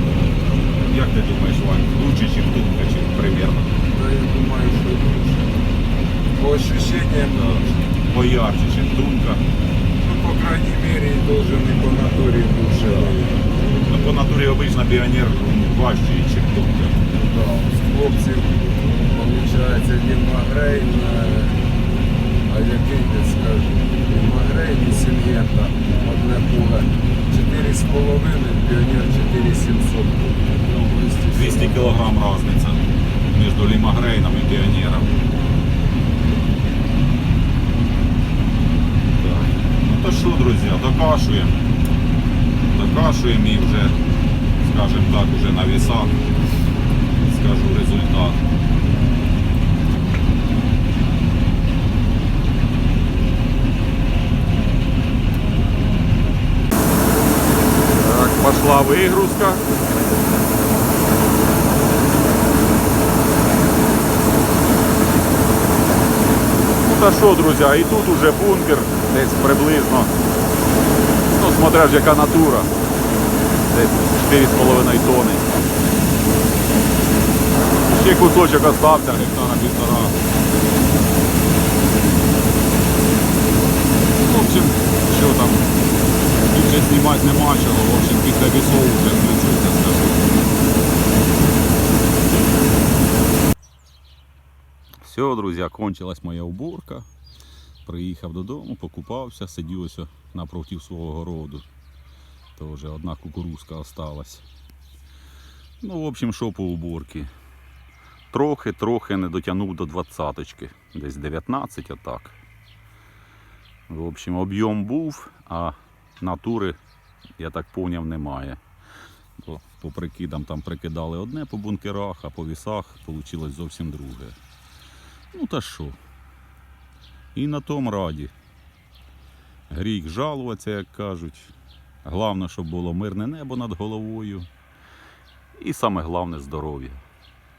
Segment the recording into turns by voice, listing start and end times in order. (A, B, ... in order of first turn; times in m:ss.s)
0:00.8-0:03.7 A
0:03.9-0:05.5 B
0:06.4-0:07.8 B
0:07.4-0:09.4 A
0:10.0-0:13.5 B
0:13.9-0:17.0 A
0:17.1-0:21.6 B
0:22.5-0:32.0 B
0:30.7-0:35.2 A
0:39.2-0:41.6 A
0:42.7-0:44.0 A
0:44.6-0:46.2 A
0:47.2-0:48.4 A
0:58.0-0:59.6 A
1:06.9-1:10.1 A
1:11.3-1:12.7 A
1:13.7-1:15.5 A
1:17.9-1:20.2 A
1:24.2-1:25.6 A
1:26.5-1:30.2 A
1:35.0-1:37.1 A
1:37.8-1:41.7 A
1:42.6-1:44.4 A
1:45.8-1:47.3 A
1:48.3-1:52.4 A
1:53.9-1:56.8 A
1:57.4-1:58.6 A
1:59.4-2:04.4 A
2:05.3-2:06.0 A
2:07.4-2:08.3 A
2:09.7-2:11.5 A
2:12.0-2:14.5 A
2:15.6-2:17.0 A